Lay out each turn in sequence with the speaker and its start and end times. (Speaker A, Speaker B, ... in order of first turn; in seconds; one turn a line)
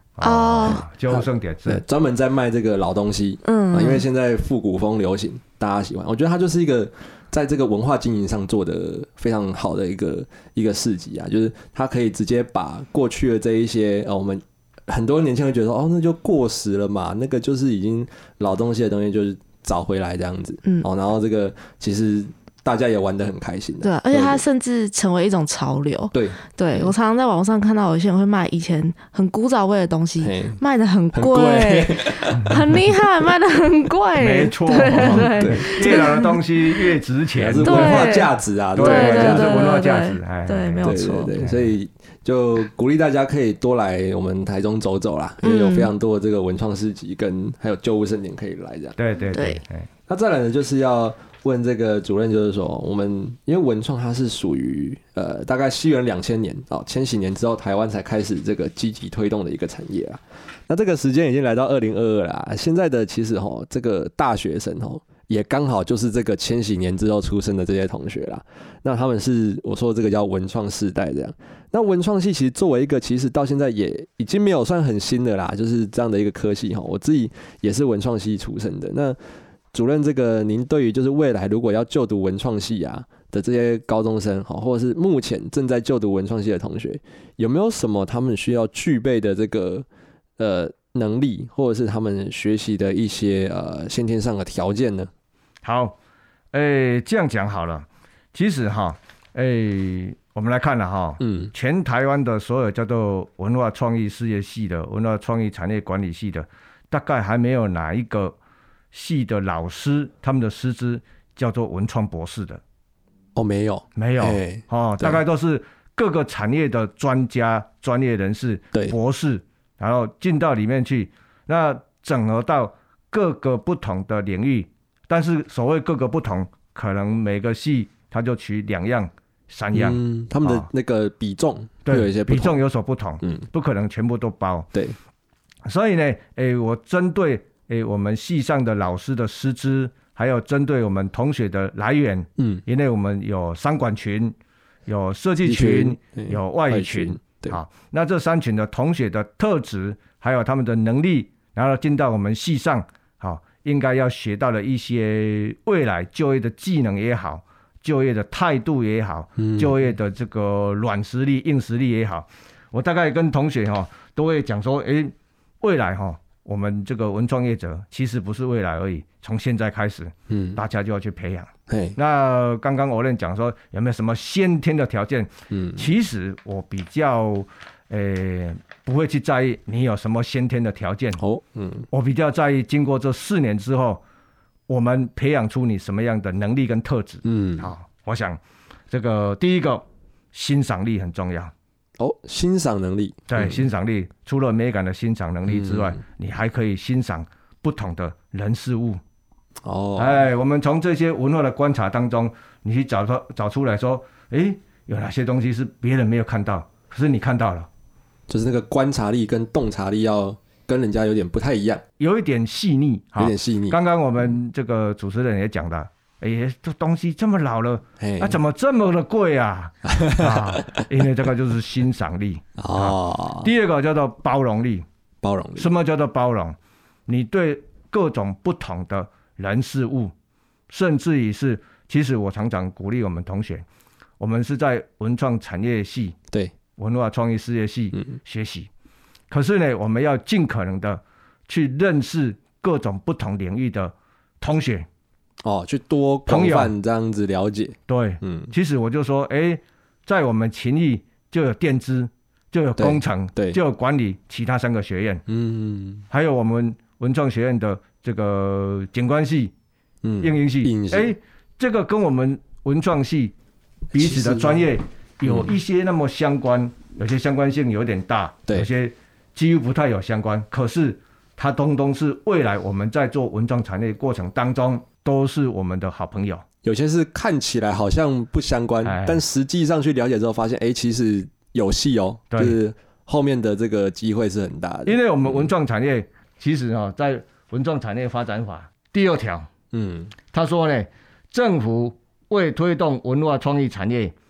Speaker A: 0.2-1.8
Speaker B: 0.2-0.8
Speaker C: 0.6-24.4
Speaker B: 3.4-4.0
Speaker B: 23.8-36.8
Speaker C: 26.1-26.9
Speaker C: 30.2-30.6
Speaker C: 31.1-32.8
Speaker A: 34.2-38.1
Speaker C: 34.9-36.2
Speaker C: 37.3-39.8
Speaker B: 37.6-41.3
Speaker A: 38.7-41.7
Speaker C: 40.8-49.0
Speaker B: 45.4-45.9
Speaker A: 49.0-49.9
Speaker B: 49.3-49.6
Speaker C: 50.1-79.2
Speaker C: 79.7-89.8
Speaker C: 90.4-95.1
Speaker A: 95.6-95.9
Speaker A: 96.5-108.3
Speaker C: 101.2-101.5
Speaker A: 108.9-112.6
Speaker C: 113.3-115.2
Speaker A: 114.0-130.7
Speaker C: 129.7-132.6
Speaker A: 131.8-134.7
Speaker A: 135.7-144.3
Speaker C: 142.4-142.6
Speaker A: 144.9-181.2
Speaker C: 145.4-147.6
Speaker C: 159.4-159.7
Speaker C: 170.3-170.6
Speaker C: 171.7-172.0
Speaker C: 175.5-175.9
Speaker C: 181.2-181.9
Speaker A: 181.9-184.0
Speaker A: 184.7-188.4
Speaker C: 187.2-187.7
Speaker A: 188.9-191.5
Speaker C: 192.0-193.7
Speaker A: 193.3-199.0
Speaker C: 195.4-196.0
Speaker C: 199.6-200.2
Speaker A: 199.9-207.7
Speaker C: 208.3-211.8
Speaker A: 212.0-224.8
Speaker C: 213.2-213.8
Speaker C: 218.0-218.4
Speaker C: 219.8-220.8
Speaker C: 222.6-223.5
Speaker C: 225.2-225.7
Speaker A: 225.6-226.6
Speaker A: 227.1-230.1
Speaker A: 230.7-233.6
Speaker A: 234.2-236.2
Speaker A: 236.8-238.7
Speaker A: 239.3-244.9
Speaker C: 245.4-248.5
Speaker A: 246.2-246.7
Speaker A: 247.9-255.2
Speaker C: 252.8-253.6
Speaker C: 255.3-256.1
Speaker A: 256.1-259.5
Speaker C: 260.0-261.1
Speaker A: 260.2-263.3
Speaker A: 263.9-276.4
Speaker C: 263.9-264.6
Speaker C: 265.2-265.6
Speaker C: 276.6-285.5
Speaker A: 278.8-279.2
Speaker A: 282.3-282.6
Speaker A: 284.9-289.5
Speaker C: 289.7-290.1
Speaker A: 290.3-294.1